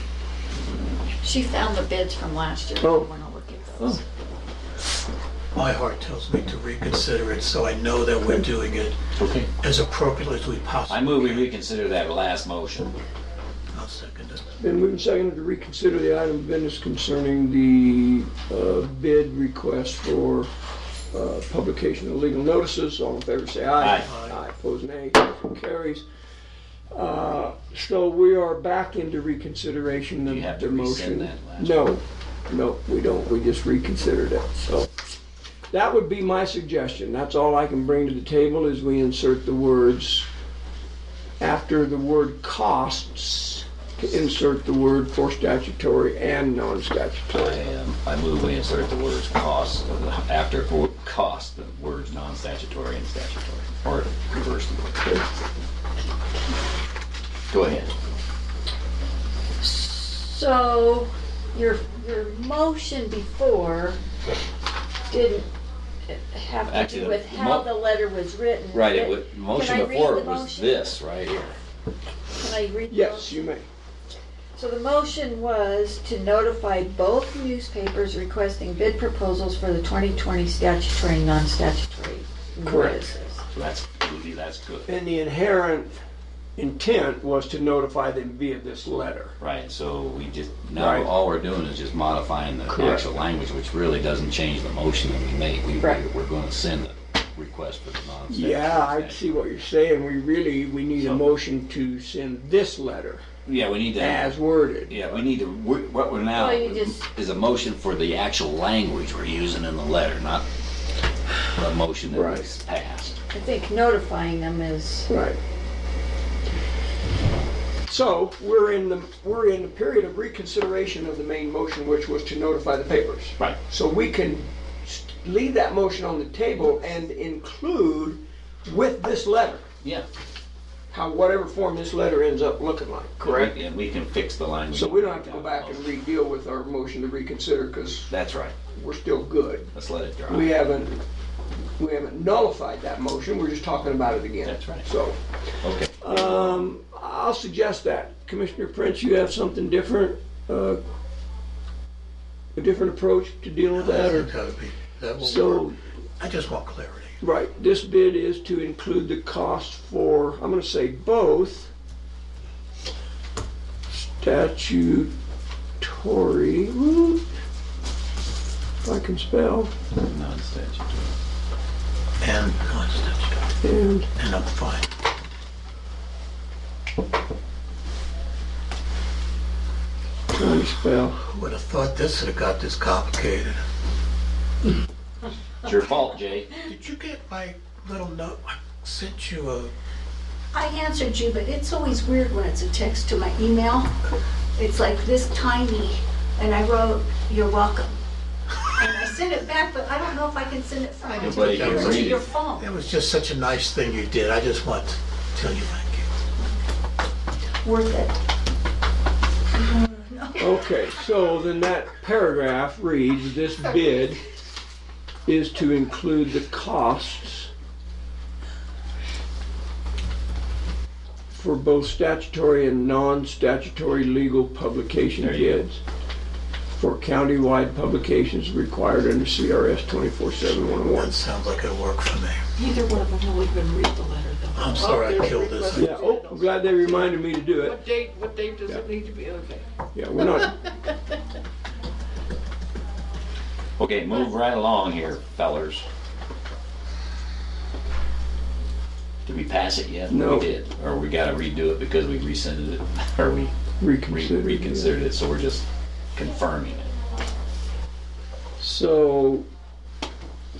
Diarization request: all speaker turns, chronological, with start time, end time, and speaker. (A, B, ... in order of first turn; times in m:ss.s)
0:01.2-0:04.0 A
0:02.8-0:03.1 B
0:05.6-0:09.0 C
0:09.2-0:09.5 D
0:09.6-0:11.5 C
0:10.9-0:13.0 D
0:13.7-0:14.5 C
0:14.6-0:20.5 B
0:21.1-0:26.0 B
0:23.8-0:24.1 D
0:24.0-0:24.4 C
0:26.9-0:34.9 B
0:30.2-0:31.9 D
0:35.7-0:40.3 B
0:41.4-0:47.6 B
0:47.3-0:55.2 D
0:57.5-0:57.9 D
0:59.6-1:04.0 A
1:05.1-1:05.5 A
1:06.1-1:11.1 A
1:06.7-1:07.7 D
1:08.7-1:11.6 D
1:12.4-1:13.6 A
1:12.9-1:13.7 B
1:14.6-1:23.4 A
1:22.6-1:23.0 B
1:23.5-1:24.9 D
1:24.9-1:25.9 B
1:26.6-1:29.3 B
1:29.4-1:39.2 D
1:30.8-1:31.1 B
1:32.7-1:33.1 B
1:38.3-1:43.2 B
1:41.0-1:41.2 D
1:43.5-1:44.4 D
1:44.0-1:45.2 B
1:44.9-1:50.5 D
1:46.3-1:47.0 A
1:51.5-1:53.2 D
1:52.1-1:52.4 B
1:53.3-1:55.1 A
1:55.1-1:55.4 B
1:57.9-2:09.6 B
2:10.9-2:13.6 B
2:13.2-2:15.9 D
2:14.7-2:18.1 B
2:18.1-2:18.5 D
2:18.7-2:19.7 B
2:19.7-2:20.5 D
2:20.3-2:21.0 B
2:21.8-2:25.2 B
2:24.4-2:24.9 D
2:25.6-2:26.7 D
2:26.0-2:30.8 B
2:32.6-2:34.3 B
2:33.8-2:35.7 C
2:35.2-2:35.8 B
2:36.2-2:37.2 C
2:37.2-2:41.7 B
2:43.9-2:45.1 B
2:45.8-2:47.2 B
2:48.8-2:49.7 B
2:50.0-2:51.1 D
2:52.2-2:53.4 C
2:53.6-2:54.1 B
2:54.2-2:54.9 C
3:00.3-3:01.2 B
3:01.2-3:03.6 C
3:05.6-3:06.6 D
3:06.6-3:09.7 C
3:10.5-3:14.0 E
3:14.6-3:18.0 E
3:18.8-3:22.7 E
3:21.0-3:26.1 C
3:21.2-3:22.2 D
3:27.6-3:28.2 E
3:29.5-3:30.7 E
3:30.4-3:34.2 B
3:35.3-3:37.5 B
3:41.3-3:45.8 B
3:45.2-3:45.6 D
3:46.8-3:51.2 B
3:50.9-3:52.4 C
3:52.6-3:59.7 F
3:54.6-3:56.0 C
3:55.8-3:57.8 B
3:59.9-4:00.6 B
4:03.8-4:05.8 D
4:09.2-4:13.5 D
4:10.1-4:10.5 B
4:13.8-4:15.0 B
4:14.0-4:16.9 D
4:18.6-4:19.5 B